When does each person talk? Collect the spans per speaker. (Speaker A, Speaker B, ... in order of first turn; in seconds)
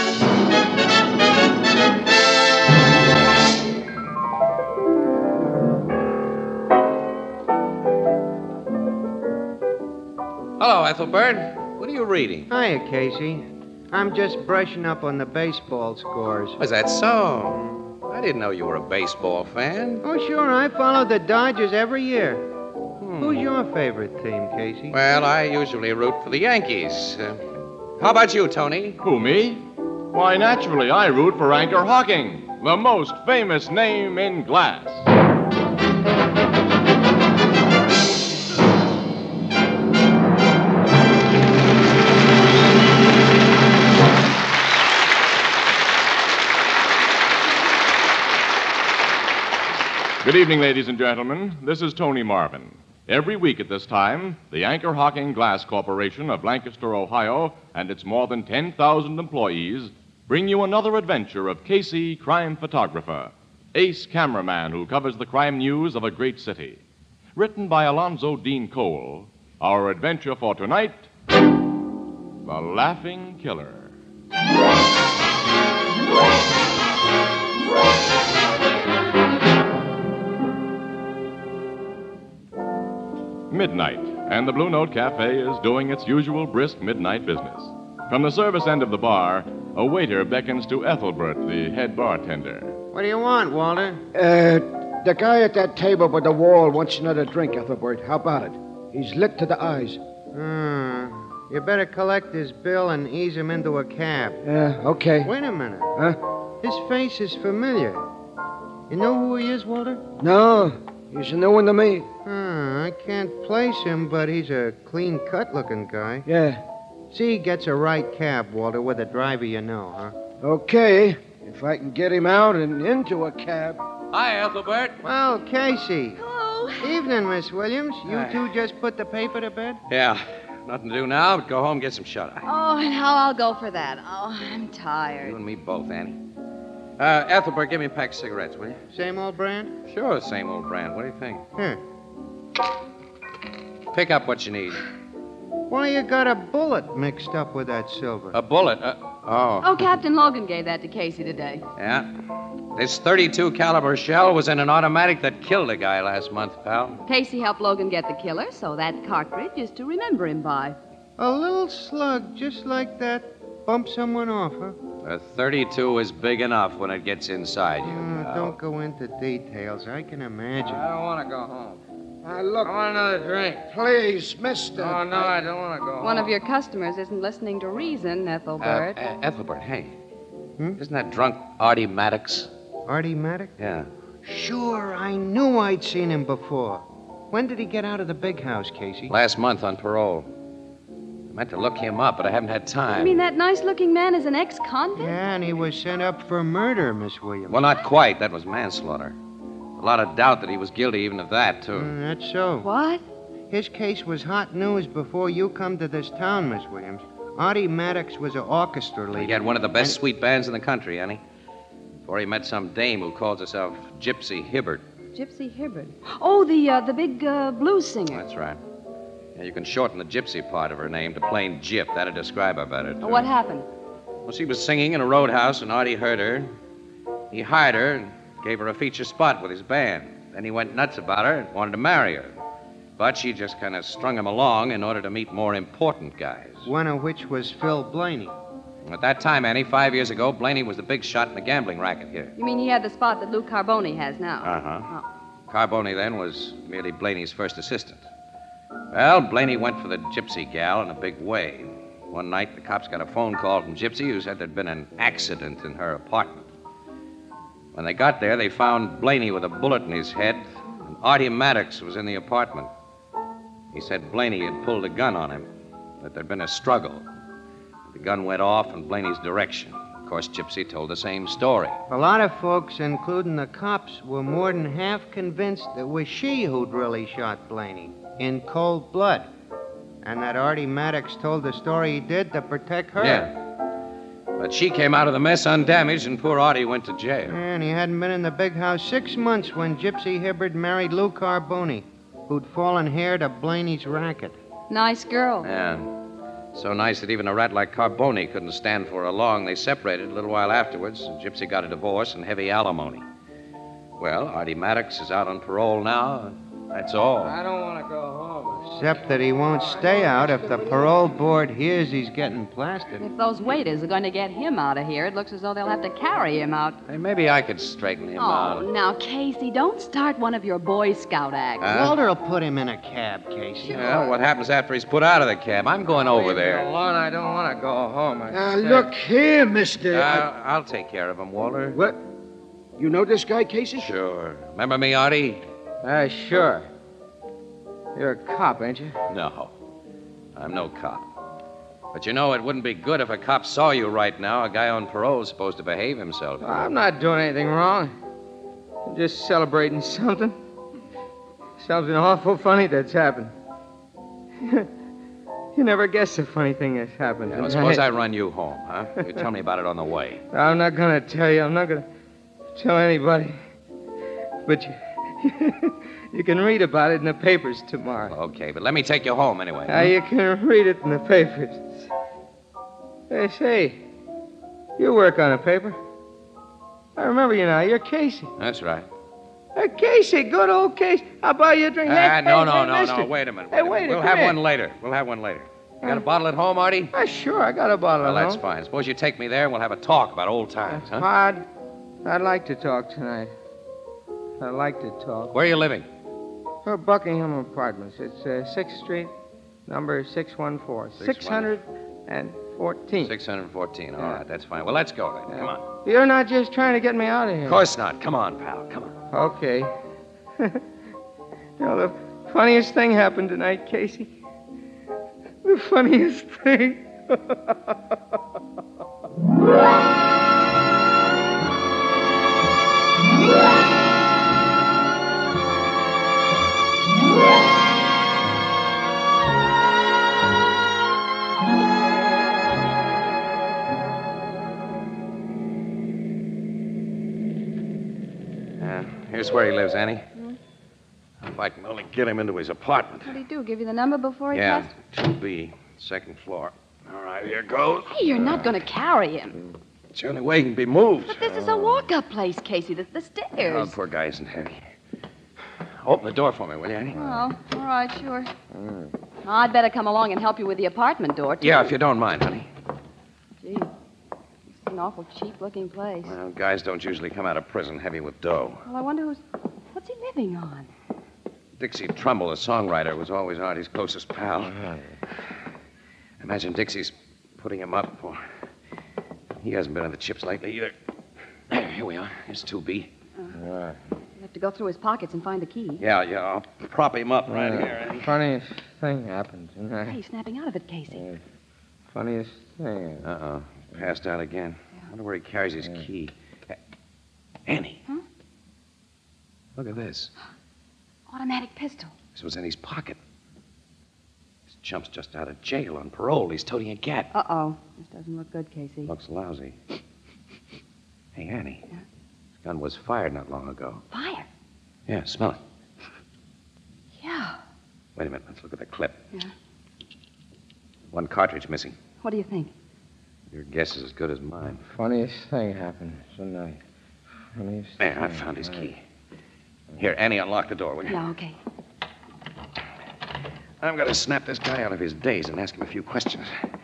Speaker A: 10.6-12.5, 16.6-20.0, 23.0-23.4, 24.9-27.4, 28.0-29.0, 124.1-125.0, 128.1-128.4, 129.9-132.5, 135.2-136.2, 137.0-138.8, 139.9-141.4, 143.9-144.8, 148.3-149.7, 151.8-152.1, 152.7-157.0, 165.0-168.6, 178.6-179.9, 180.8-182.5, 183.6-183.9, 189.1-190.3, 191.3-193.2, 197.5-199.2, 199.8-201.9, 209.1-211.2, 212.1-214.8, 218.1-218.6, 219.3-223.3, 224.3-226.5, 227.3-232.4, 233.0-236.7, 238.8-242.3, 244.4-244.9, 245.5-248.1, 248.9-256.5, 257.7-262.7, 263.7-265.5, 266.0-267.1, 267.9-271.8, 283.0-283.3, 284.4-287.4, 295.4-295.9, 296.5-303.0, 304.0-307.4, 316.9-318.6, 321.6-322.0, 323.7-326.7, 329.9-331.8, 333.8-335.4, 339.1-339.5, 340.4-341.1, 341.9-346.7, 357.3-360.2, 368.1-369.9, 378.4-378.9, 381.9-386.9, 388.0-391.1, 395.3-395.9, 401.0-401.5, 403.0-405.6, 407.4-408.9, 438.6-440.1, 441.2-443.2, 444.3-448.5, 449.9-451.3, 453.4-454.6, 455.8-457.2, 461.4-462.5, 466.0-468.6, 471.6-474.6, 476.2-478.2, 479.4-480.7, 481.5-482.9, 485.8-488.0, 493.0-496.6, 497.5-497.8, 499.6-500.1, 502.1-503.0, 504.5-507.1, 508.9-509.6, 511.1-511.6, 512.4-513.8, 514.9-515.4, 518.0-519.0, 520.9-521.8, 523.3-524.6, 527.8-528.8, 529.8-531.0, 533.6-536.3
Speaker B: 12.5-16.6, 20.0-22.5, 23.2-25.0, 92.9-94.0, 100.3-104.4, 105.2-106.0, 106.6-108.1, 108.9-110.0, 112.2-116.3, 117.1-120.1, 125.0-126.2, 126.8-129.8, 138.9-139.7, 145.7-148.4, 161.2-164.8, 167.8-170.8, 182.8-183.5, 184.2-189.1, 194.9-197.8, 201.7-202.7, 203.5-210.0, 236.7-238.3, 271.9-279.3, 280.0-283.3, 287.3-294.4, 308.8-313.0, 321.7-324.1
Speaker C: 29.0-35.1, 50.2-66.8, 67.3-71.1, 72.4-73.9, 83.5-92.7
Speaker D: 94.1-100.0, 104.4-105.3, 110.2-112.1, 116.2-116.6, 120.4-123.8, 172.2-172.8, 173.6-175.1, 328.3-330.3, 331.7-332.0, 332.8-333.9
Speaker E: 126.2-127.0, 132.4-135.3, 149.6-151.6, 157.1-160.8, 176.0-178.9, 192.9-195.2, 202.6-203.0, 215.1-218.2, 223.0-223.7, 242.4-245.0, 294.7-295.5, 313.0-316.8, 318.2-321.8, 323.6-324.1, 443.0-444.7, 447.9-449.4, 451.1-453.7, 456.9-458.3, 459.2-461.7, 463.4-463.7, 464.6-466.1, 468.6-470.7, 484.2-485.8, 489.9-491.0, 501.1-501.9, 507.1-508.9, 513.9-514.3, 517.0-517.4, 522.0-522.5, 530.9-531.4
Speaker F: 170.6-171.8, 172.6-173.6, 174.7-176.3, 307.2-310.7, 325.9-328.9, 335.8-336.7, 337.9-339.0, 346.4-347.9, 348.9-350.4, 351.6-353.3, 354.4-354.7, 355.5-357.8, 360.3-361.9, 362.5-363.4, 364.4-368.1, 369.6-371.9, 373.1-373.8, 374.8-375.8, 376.9-378.3, 379.5-384.4, 386.9-388.4, 390.7-391.4, 392.0-393.3, 394.4-395.3, 396.6-399.1, 399.6-403.1, 405.3-407.6, 409.1-409.7, 410.4-410.6, 411.6-414.1, 415.4-417.8, 487.3-490.0, 490.9-491.2, 491.9-493.0, 524.7-526.6, 527.4-528.6